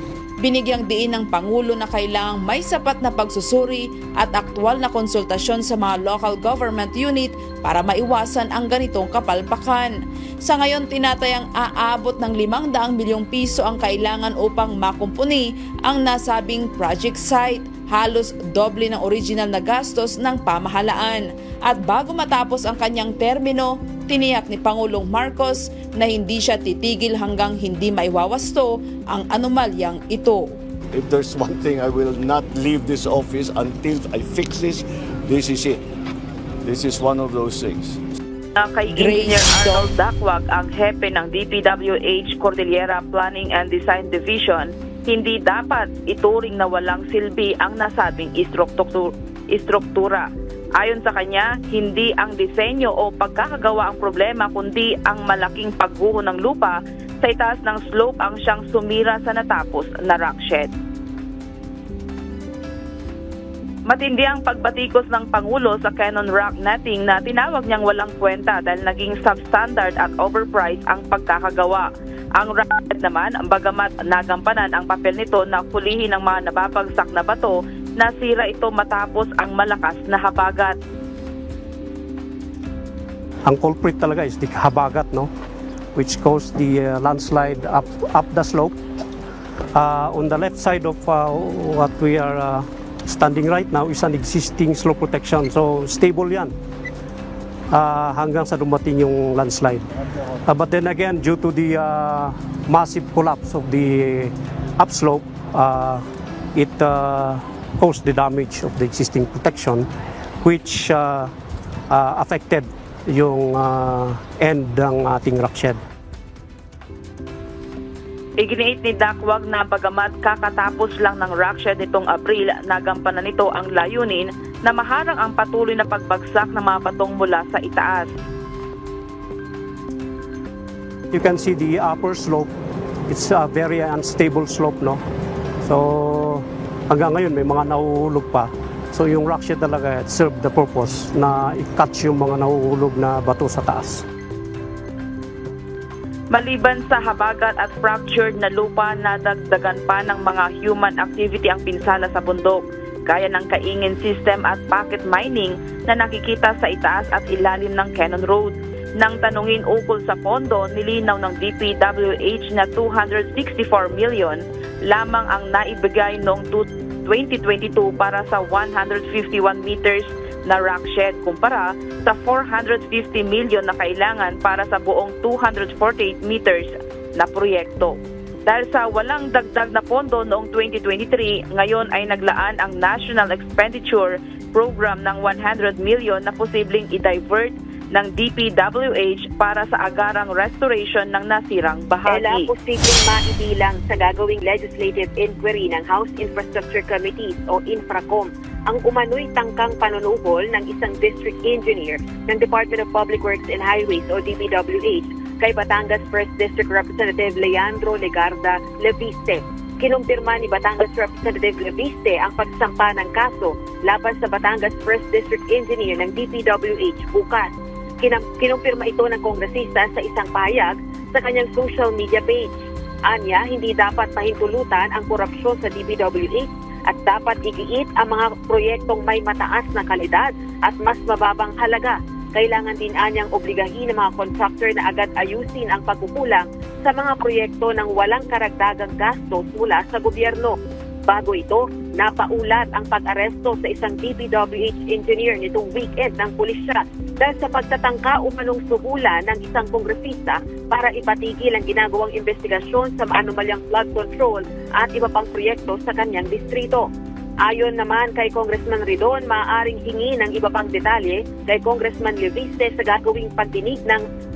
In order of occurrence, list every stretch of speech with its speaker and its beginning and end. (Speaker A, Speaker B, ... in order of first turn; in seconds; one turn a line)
Speaker A: 0.4-30.5
Speaker B: 30.9-35.8
Speaker B: 36.6-38.0
Speaker C: 38.6-60.7
Speaker A: 38.9-39.9
Speaker C: 63.9-71.9
Speaker C: 72.4-80.8
Speaker D: 83.5-85.3
Speaker D: 86.0-88.8
Speaker D: 89.8-96.5
Speaker D: 97.7-99.9
Speaker D: 100.5-109.9
Speaker D: 110.4-111.3
Speaker D: 111.9-115.8
Speaker C: 118.4-128.1
Speaker D: 131.1-132.5
Speaker D: 133.1-135.0
Speaker D: 135.6-144.1
Speaker C: 146.3-192.5
Speaker E: 192.1-222.5
Speaker E: 223.1-256.9
Speaker E: 257.4-264.0